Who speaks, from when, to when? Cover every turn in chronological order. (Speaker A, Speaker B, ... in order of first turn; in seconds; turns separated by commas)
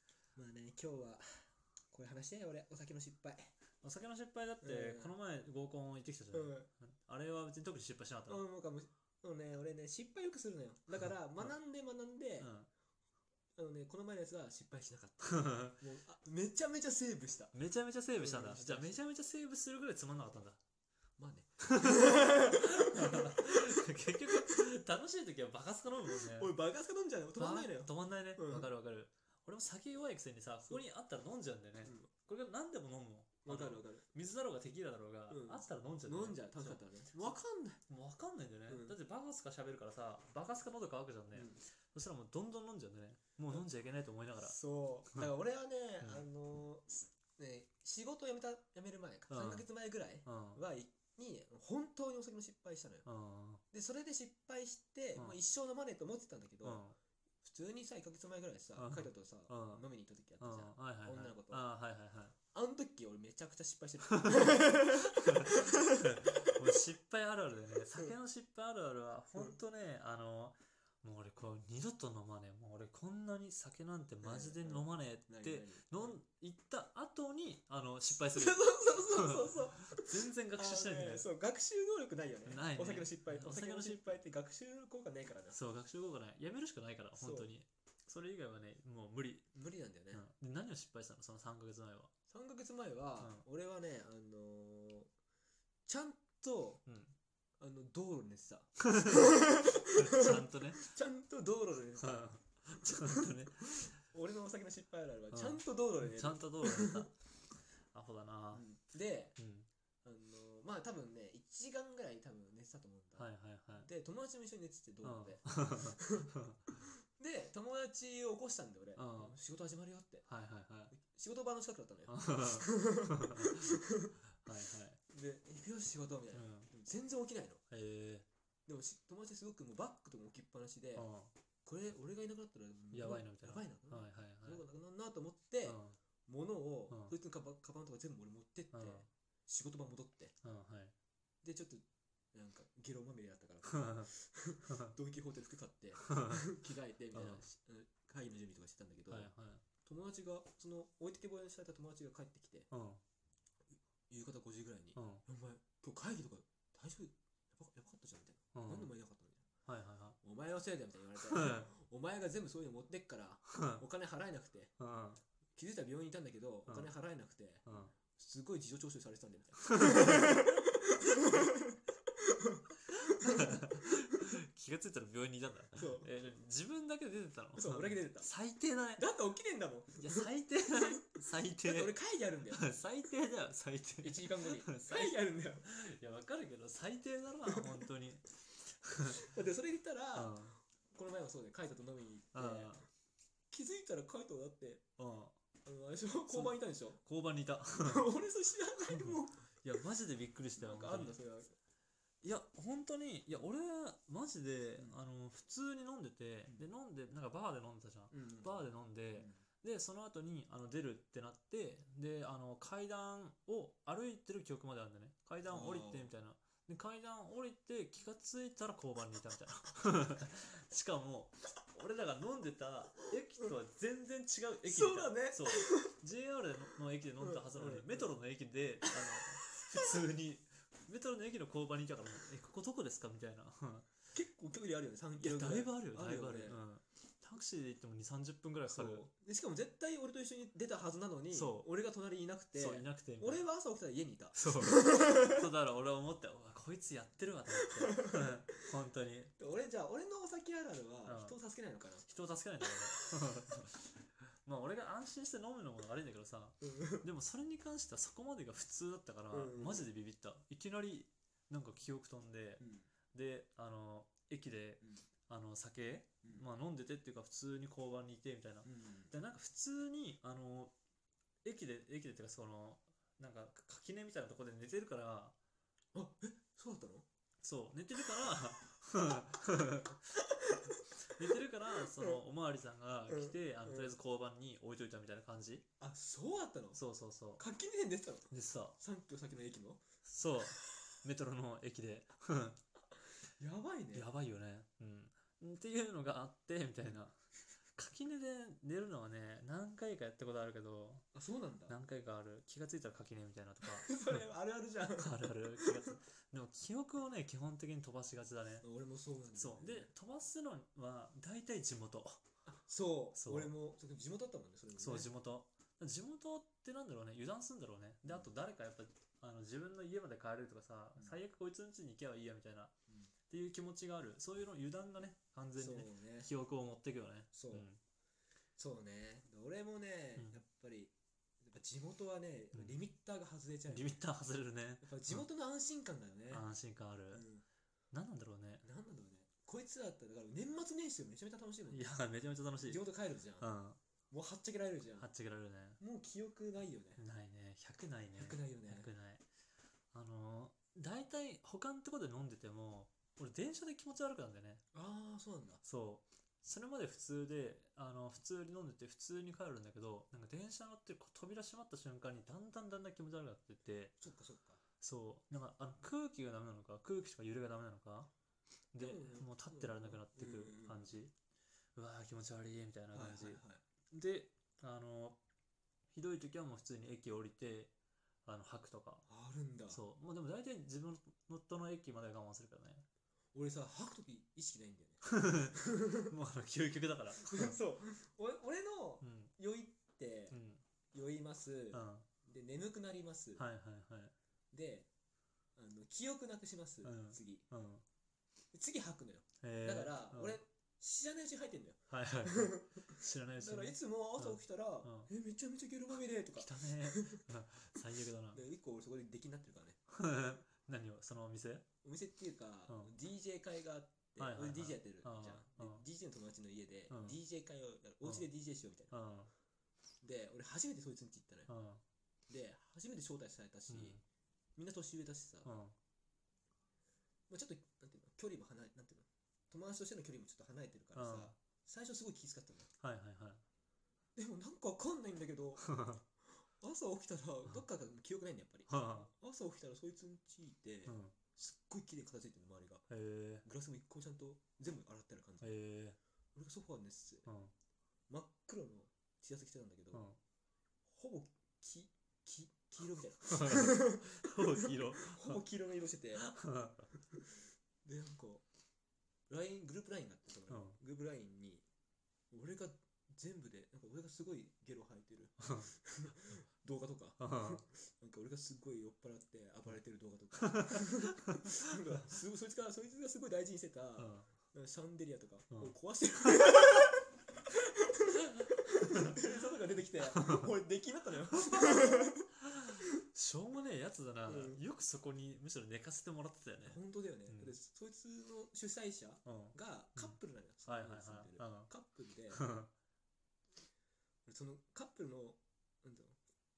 Speaker A: 0.3-3.5, Speaker B: 3.8-8.4, Speaker A: 4.6-5.1, Speaker A: 6.3-6.7, Speaker A: 8.3-12.5, Speaker B: 12.4-12.7, Speaker A: 13.6-17.6, Speaker B: 15.3-15.8, Speaker B: 17.5-20.6, Speaker A: 18.1-19.0, Speaker A: 21.2-24.6, Speaker B: 21.6-26.5, Speaker A: 26.1-28.7, Speaker B: 27.4-37.3, Speaker A: 31.8-32.1, Speaker A: 33.4-34.1, Speaker A: 35.3-37.8, Speaker B: 37.9-44.6, Speaker A: 38.7-39.0, Speaker A: 41.3-41.6, Speaker A: 44.4-53.0, Speaker B: 49.3-49.6, Speaker B: 50.2-50.6, Speaker B: 53.0-53.6, Speaker A: 53.7-56.8, Speaker B: 56.6-57.0, Speaker A: 57.4-61.7, Speaker B: 58.8-59.8, Speaker B: 60.4-62.4, Speaker A: 62.5-66.5, Speaker B: 64.3-81.3, Speaker A: 74.2-76.2, Speaker A: 78.1-85.6, Speaker B: 82.5-84.2, Speaker B: 85.5-89.5, Speaker A: 87.2-87.5, Speaker A: 89.5-90.2, Speaker B: 90.1-92.1, Speaker A: 92.3-95.1, Speaker B: 93.2-93.4, Speaker A: 95.8-96.8, Speaker B: 96.8-97.1, Speaker A: 97.6-107.1, Speaker B: 98.8-100.8, Speaker B: 102.0-103.9, Speaker B: 105.3-107.1, Speaker B: 107.9-108.6, Speaker A: 108.5-109.3, Speaker B: 109.4-109.7, Speaker A: 110.0-120.2, Speaker B: 113.2-113.9, Speaker B: 115.0-116.6, Speaker B: 119.0-119.3, Speaker B: 120.3-120.9, Speaker A: 120.9-124.1, Speaker B: 122.1-123.8, Speaker B: 124.4-125.0, Speaker A: 125.1-127.6, Speaker B: 126.3-126.7, Speaker B: 127.7-128.2, Speaker A: 128.7-131.1, Speaker B: 130.9-131.3, Speaker A: 131.6-140.3, Speaker B: 132.9-134.6, Speaker B: 135.6-136.0, Speaker B: 136.9-137.1, Speaker B: 138.7-139.1, Speaker B: 140.4-140.9, Speaker A: 141.4-141.8, Speaker A: 142.3-149.3, Speaker B: 143.7-144.1, Speaker B: 146.1-146.4, Speaker B: 147.1-147.4, Speaker B: 149.1-149.6, Speaker A: 149.8-152.7, Speaker B: 152.7-153.0, Speaker A: 154.1-159.4, Speaker B: 154.9-155.2, Speaker B: 158.5-158.9, Speaker B: 159.7-160.2, Speaker A: 160.2-164.7, Speaker B: 161.2-161.7, Speaker B: 163.5-163.8, Speaker B: 164.8-165.2, Speaker A: 165.6-174.2, Speaker B: 166.7-166.9, Speaker B: 167.7-167.9, Speaker B: 169.7-170.6, Speaker B: 173.0-179.0, Speaker A: 175.7-176.1, Speaker A: 177.6-178.3, Speaker A: 179.0-182.6, Speaker B: 179.9-181.9, Speaker B: 182.5-189.2, Speaker A: 184.0-185.7, Speaker A: 189.1-192.8, Speaker B: 190.1-190.6, Speaker B: 192.3-192.9, Speaker A: 193.5-194.8, Speaker B: 195.0-195.3, Speaker A: 195.6-197.0, Speaker B: 196.3-198.1, Speaker A: 197.7-199.8, Speaker B: 198.9-201.2, Speaker A: 200.6-201.5, Speaker B: 202.2-233.9, Speaker A: 208.1-209.4, Speaker A: 215.4-216.1, Speaker A: 224.7-225.9, Speaker A: 227.2-228.1, Speaker A: 229.1-229.6, Speaker A: 234.1-236.6, Speaker B: 235.2-239.1, Speaker A: 238.7-245.4, Speaker B: 241.3-241.7, Speaker B: 242.5-243.4, Speaker B: 244.3-249.3, Speaker A: 247.7-248.3, Speaker A: 249.4-252.1, Speaker B: 251.0-251.4, Speaker B: 252.0-270.7, Speaker A: 252.9-253.5, Speaker A: 256.6-257.1, Speaker A: 259.3-259.9, Speaker A: 262.6-262.9, Speaker A: 264.8-265.1, Speaker A: 268.6-269.1, Speaker B: 271.4-275.3, Speaker A: 275.9-277.1, Speaker B: 277.4-280.1, Speaker A: 280.1-281.1, Speaker B: 281.0-285.6, Speaker A: 283.1-283.9, Speaker A: 285.8-286.8, Speaker B: 286.7-287.4, Speaker A: 287.4-289.8, Speaker B: 288.3-288.8, Speaker B: 290.0-292.6, Speaker A: 293.4-294.1, Speaker B: 293.9-297.2, Speaker B: 297.7-301.1, Speaker A: 301.1-301.8, Speaker B: 301.7-304.2, Speaker A: 303.6-305.9, Speaker B: 305.0-308.6, Speaker A: 308.6-309.9, Speaker B: 309.3-312.2, Speaker A: 312.4-315.1, Speaker B: 313.1-313.5, Speaker B: 314.8-322.7, Speaker B: 323.3-327.8, Speaker A: 325.6-326.3, Speaker A: 327.3-327.7, Speaker A: 328.6-334.0, Speaker B: 332.5-332.8, Speaker B: 333.7-335.2, Speaker A: 334.8-336.4, Speaker B: 336.3-337.2, Speaker A: 337.1-337.4, Speaker B: 337.9-338.6, Speaker A: 338.6-341.9, Speaker B: 341.7-342.8, Speaker A: 342.6-343.5, Speaker B: 343.4-343.8, Speaker A: 344.1-345.1, Speaker B: 345.0-345.8, Speaker A: 345.8-347.0, Speaker B: 347.0-349.2, Speaker A: 348.1-348.9, Speaker B: 349.9-354.6, Speaker A: 354.7-355.6, Speaker B: 355.6-363.9, Speaker A: 364.0-364.6, Speaker B: 364.8-368.1, Speaker B: 368.7-371.1, Speaker A: 368.8-371.0, Speaker B: 371.7-375.2, Speaker A: 372.9-373.6, Speaker B: 375.9-377.7, Speaker B: 378.2-379.0, Speaker A: 379.1-379.8, Speaker B: 379.7-382.8, Speaker A: 383.3-386.1, Speaker B: 385.0-387.6, Speaker A: 387.2-390.4, Speaker B: 389.0-389.3, Speaker B: 390.3-390.6, Speaker A: 390.9-393.4, Speaker B: 391.7-392.1, Speaker B: 393.4-394.1, Speaker A: 394.5-394.9, Speaker A: 395.6-397.4, Speaker B: 396.8-397.8, Speaker A: 398.5-407.2, Speaker B: 399.4-400.4, Speaker B: 401.9-405.1, Speaker B: 406.4-408.4, Speaker A: 408.3-409.8, Speaker B: 409.9-411.6, Speaker A: 411.8-418.9, Speaker B: 414.2-415.8, Speaker B: 416.9-417.2, Speaker B: 418.9-419.3, Speaker A: 420.0-421.5, Speaker B: 421.5-421.8, Speaker A: 422.3-424.0, Speaker B: 423.7-424.0, Speaker A: 424.6-425.5, Speaker B: 425.4-425.7, Speaker A: 427.3-432.7, Speaker B: 430.9-431.3, Speaker B: 432.8-433.4, Speaker A: 434.1-442.8, Speaker B: 435.6-436.0, Speaker B: 438.7-439.1, Speaker B: 440.9-441.1, Speaker B: 442.9-443.4, Speaker A: 443.4-445.5, Speaker B: 445.4-446.0, Speaker A: 446.3-447.2, Speaker B: 447.2-447.5, Speaker A: 448.1-450.1, Speaker B: 449.9-450.2, Speaker A: 450.9-456.3, Speaker B: 453.3-455.4, Speaker B: 456.1-456.9, Speaker A: 457.0-457.3, Speaker A: 457.8-458.4, Speaker A: 459.3-461.6, Speaker B: 460.5-460.8, Speaker A: 462.3-482.4, Speaker B: 465.4-465.7, Speaker B: 467.2-467.6, Speaker B: 470.6-470.8, Speaker B: 474.0-474.3, Speaker B: 478.9-479.2, Speaker B: 481.5-487.5, Speaker A: 484.2-484.6, Speaker A: 486.6-492.4, Speaker B: 489.2-491.7, Speaker B: 492.3-492.7, Speaker A: 494.2-496.2